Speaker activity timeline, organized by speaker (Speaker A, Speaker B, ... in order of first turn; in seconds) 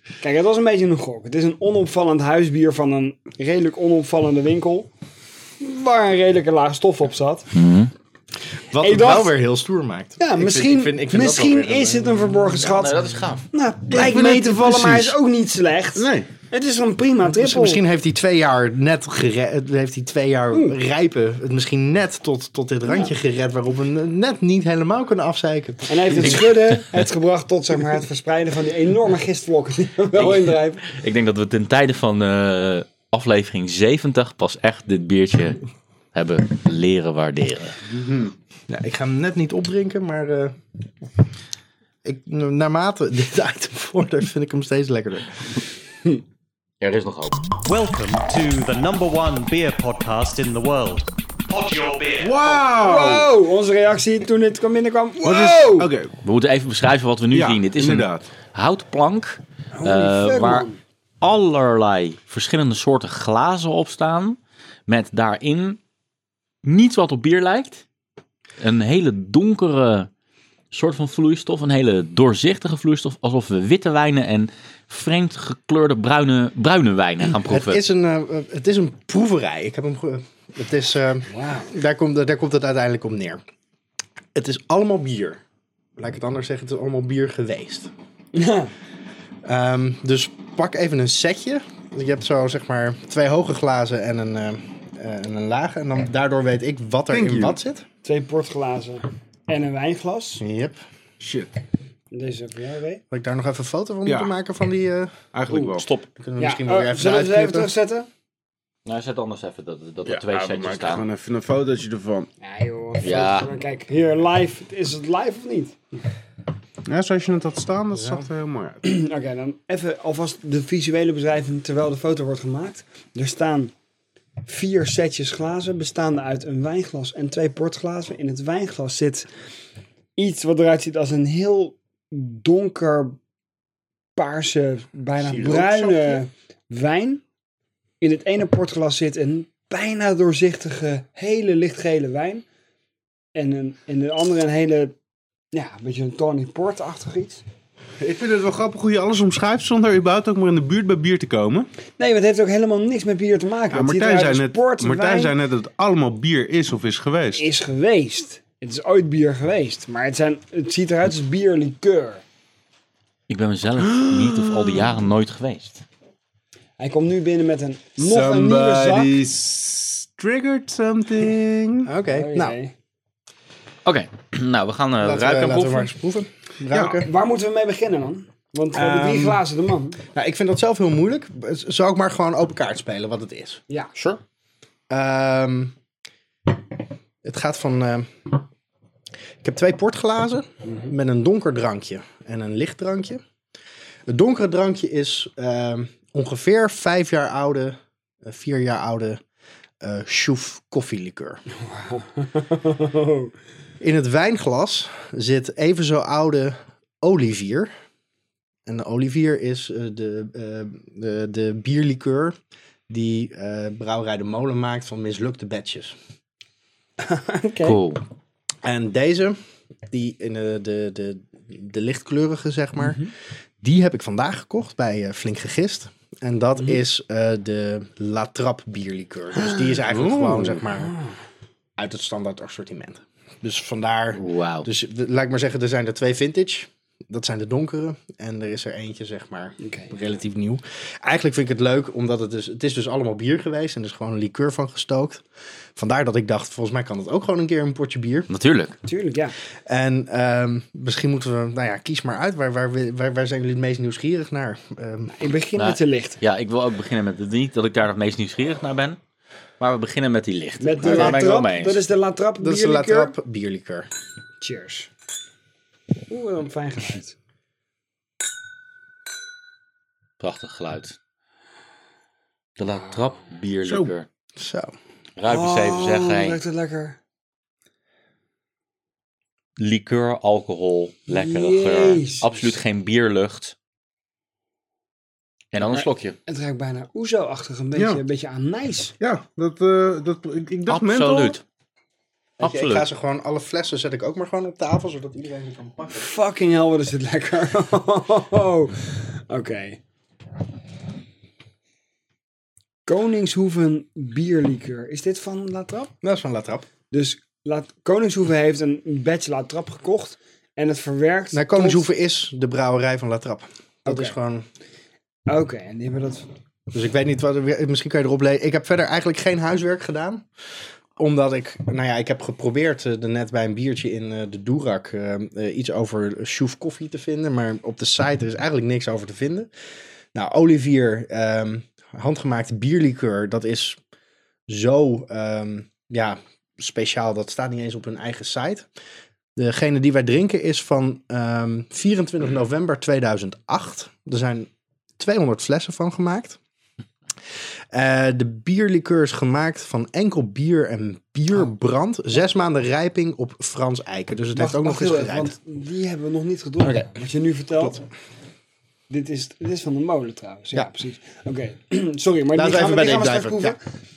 Speaker A: 0.2-4.9, 5.6-7.5, 8.8-9.4, 10.2-17.8, 22.9-23.1, 25.9-30.8, 52.8-55.9, 59.7-60.8, 81.3-81.7, 88.3-88.7, 98.0-100.4, 102.1-103.0, 106.4-108.1, 112.4-115.8, 118.8-123.7, 124.5-129.3, 130.2-133.2, 134.2-137.2, 138.0-142.4, 143.3-144.9, 145.5-147.4, 152.0-155.3, 157.3-162.2, 166.8-169.2, 172.1-172.7, 176.9-180.0, 190.7-190.9, 201.6-203.3, 217.0-217.8, 222.8-223.1, 229.4-229.7, 239.6-239.9, 248.8-249.3, 255.1-256.2, 260.6-263.1, 264.4-264.9, 266.1-267.1, 275.3-277.0, 281.1-282.6, 285.6-288.9, 295.9-299.8, 302.9-305.9, 306.9-311.9, 313.9-314.1, 315.3-316.3, 354.3-357.8, 358.9-363.6
Speaker B: 7.5-7.9, 12.6-13.5, 26.2-27.0, 30.1-35.6, 36.1-37.8, 46.8-47.4, 56.2-60.7, 61.2-65.8, 66.6-67.8, 68.6-70.1, 70.7-77.8, 105.5-106.1, 108.8-111.1, 113.0-113.5, 163.3-165.8, 173.8-175.9, 183.9-184.2, 217.6-218.0, 234.1-234.7, 248.3-248.8, 255.6-259.0, 259.6-261.8, 270.2-271.0, 272.6-274.1, 275.2-276.4, 279.6-283.5, 285.5-286.2, 290.7-291.4, 292.4-292.9
Speaker C: 8.7-12.5, 13.9-15.2, 17.3-26.4, 38.7-40.5, 42.0-45.4, 77.4-83.4, 84.3-85.4, 86.0-87.9, 89.4-97.8, 100.4-100.8, 103.1-105.1, 106.2-107.7, 171.8-172.6, 175.0-177.1, 178.7-179.4, 180.1-183.6, 184.9-185.7, 187.2-188.3, 189.4-193.2, 194.1-199.2, 199.8-201.4, 203.8-207.7, 208.7-212.3, 212.9-215.9, 218.6-219.4, 219.9-230.9, 231.8-245.2, 245.8-248.3, 249.7-255.1, 260.8-261.2, 262.4-263.9, 274.4-274.7, 292.4-296.1, 306.0-306.7, 311.3-314.4, 316.7-320.2, 321.0-329.5, 330.1-333.8, 334.5-338.7, 339.4-346.4, 347.7-355.3, 356.6-356.9, 357.5-357.8, 362.3-363.6
Speaker D: 15.9-16.3, 37.9-38.3, 52.2-53.3, 55.2-56.1, 57.3-58.3, 97.1-97.6, 101.2-101.5, 104.0-104.3, 105.3-105.9, 110.0-112.3, 116.8-118.8, 135.2-136.2, 148.0-151.7, 153.7-157.5, 163.8-164.9, 168.0-171.9, 176.7-177.0, 229.8-230.6, 273.6-273.9, 287.7-288.0, 289.0-291.4
Speaker E: 47.6-52.6